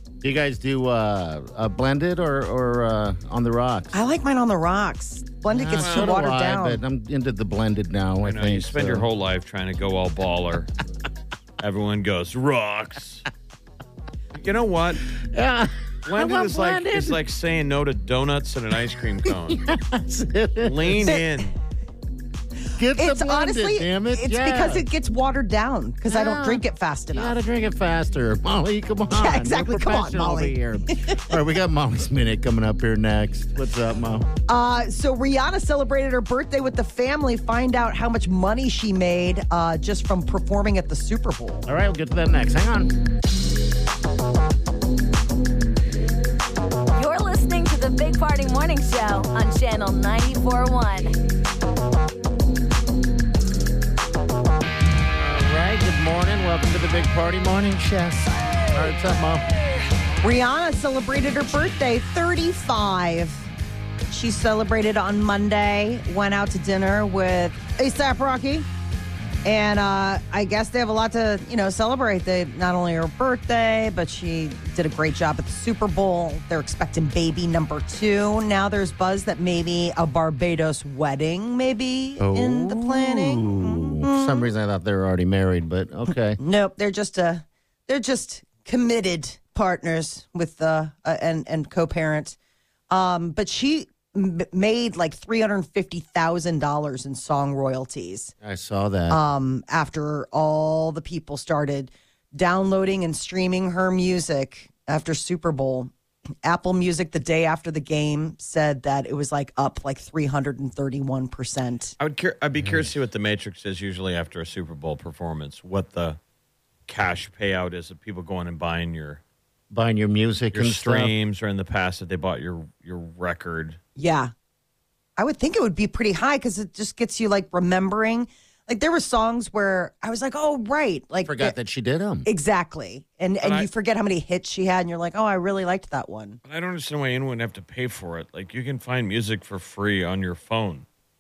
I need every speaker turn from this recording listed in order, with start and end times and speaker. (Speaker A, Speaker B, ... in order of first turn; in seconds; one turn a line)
Speaker A: 0.2-4.0
Speaker B: 3.9-6.8
Speaker A: 5.5-9.1
Speaker C: 5.8-6.2
Speaker C: 8.2-10.7
Speaker C: 11.6-13.3
Speaker C: 14.3-15.1
Speaker A: 15.1-17.2
Speaker C: 16.1-19.6
Speaker A: 19.3-21.1
Speaker C: 20.6-21.5
Speaker A: 22.8-24.9
Speaker B: 22.9-27.4
Speaker A: 26.1-34.3
Speaker B: 29.1-31.1
Speaker B: 34.5-41.7
Speaker A: 41.7-43.0
Speaker D: 47.0-51.2
Speaker A: 55.2-59.5
Speaker B: 60.2-63.5
Speaker B: 64.1-68.7
Speaker B: 69.4-84.5
Speaker A: 82.2-86.4
Speaker B: 86.4-92.4
Speaker B: 92.9-98.3
Speaker A: 98.4-99.2
Speaker B: 99.1-105.9
Speaker B: 106.4-112.0
Speaker C: 112.0-116.2
Speaker A: 112.6-112.9
Speaker C: 116.9-119.2
Speaker A: 119.7-121.1
Speaker C: 120.5-123.8
Speaker B: 124.0-124.3
Speaker B: 125.2-131.6
Speaker A: 131.2-132.3
Speaker B: 132.2-136.4
Speaker C: 133.4-133.7
Speaker C: 136.4-140.9